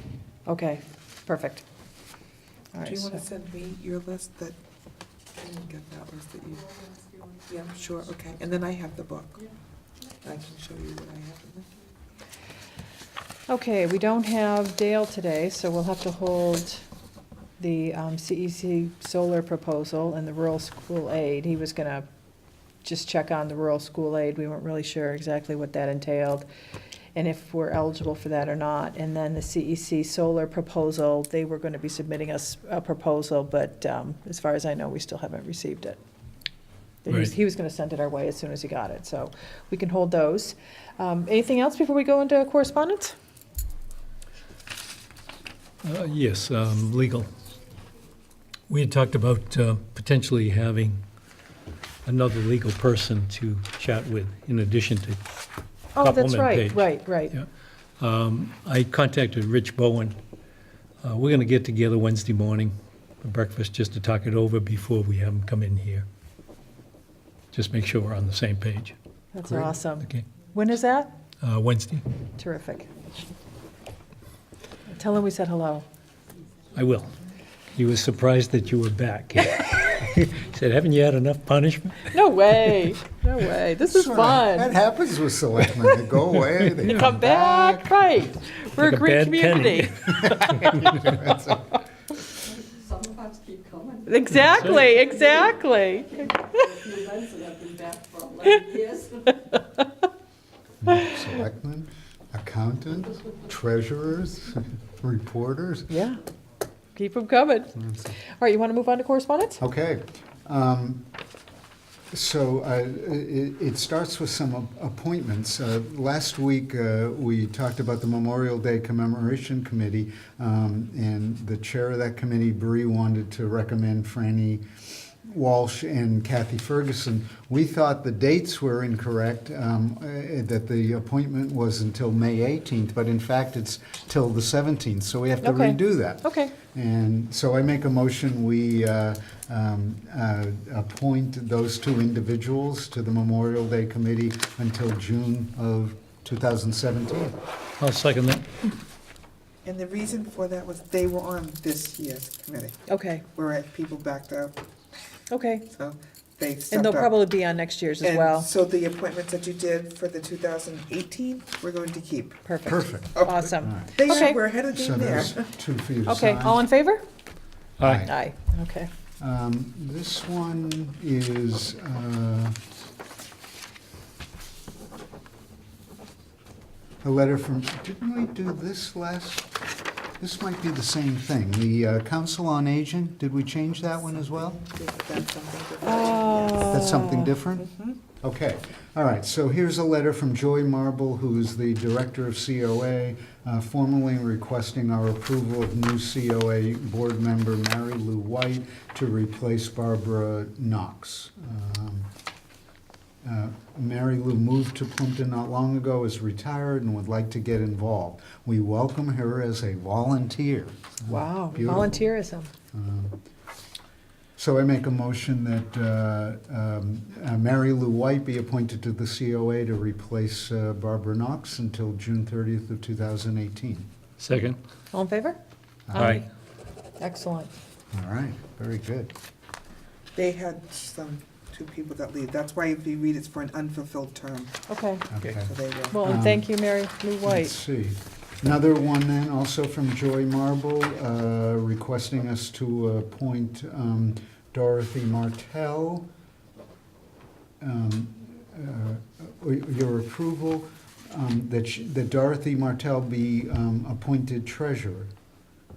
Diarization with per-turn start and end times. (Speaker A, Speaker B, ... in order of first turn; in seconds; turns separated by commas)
Speaker A: 0.5-1.7, Speaker A: 2.7-3.2, Speaker B: 2.8-4.6, Speaker B: 5.3-6.8, Speaker B: 7.5-9.5, Speaker B: 10.2-11.7, Speaker A: 13.5-16.8, Speaker A: 17.6-22.1, Speaker A: 22.8-26.5, Speaker A: 27.1-36.0, Speaker A: 37.0-43.1, Speaker C: 45.8-47.3, Speaker C: 48.7-51.0, Speaker C: 52.0-55.2, Speaker A: 56.0-57.3, Speaker C: 56.0-57.5, Speaker C: 58.0-60.2, Speaker C: 61.0-66.1, Speaker C: 67.5-69.0, Speaker A: 69.3-71.1, Speaker C: 69.5-70.2, Speaker C: 71.4-72.0, Speaker A: 72.4-72.9, Speaker A: 74.9-75.9, Speaker C: 76.7-77.1, Speaker C: 77.7-82.2, Speaker A: 82.1-84.8, Speaker D: 83.8-88.2, Speaker C: 86.8-87.1, Speaker A: 86.9-90.9, Speaker C: 88.8-91.0, Speaker D: 90.1-91.8, Speaker E: 92.9-93.9, Speaker A: 94.0-96.6, Speaker C: 94.6-94.9, Speaker E: 97.0-99.0, Speaker D: 100.8-105.9, Speaker A: 105.9-106.2, Speaker A: 107.0-109.6, Speaker D: 107.8-108.2, Speaker D: 109.6-111.0, Speaker D: 112.1-147.4, Speaker A: 135.4-136.5, Speaker C: 147.8-148.5, Speaker B: 149.6-154.6, Speaker A: 152.9-153.2, Speaker A: 155.3-155.7, Speaker B: 155.7-157.2, Speaker A: 156.7-158.5, Speaker B: 158.0-162.4, Speaker A: 162.4-164.4, Speaker D: 162.7-164.1, Speaker B: 163.9-165.4, Speaker D: 164.7-166.7, Speaker A: 166.1-167.0, Speaker C: 167.8-168.1, Speaker D: 167.8-168.2, Speaker A: 168.0-168.9, Speaker D: 169.2-172.6, Speaker D: 177.0-179.5, Speaker D: 180.2-184.6, Speaker B: 184.3-186.8, Speaker A: 185.8-187.3, Speaker D: 186.7-202.1, Speaker B: 187.7-188.0, Speaker D: 203.2-212.1, Speaker A: 211.1-212.5, Speaker D: 212.7-213.2, Speaker D: 214.4-223.9, Speaker C: 224.2-224.6, Speaker A: 224.9-225.4, Speaker D: 225.9-226.2, Speaker A: 225.9-226.2, Speaker C: 225.9-226.2, Speaker A: 227.0-227.5, Speaker D: 227.9-229.1, Speaker B: 230.2-234.6, Speaker A: 234.7-235.1, Speaker D: 235.1-236.5, Speaker B: 235.3-236.0, Speaker A: 235.9-237.5, Speaker D: 237.2-246.1, Speaker D: 247.6-255.1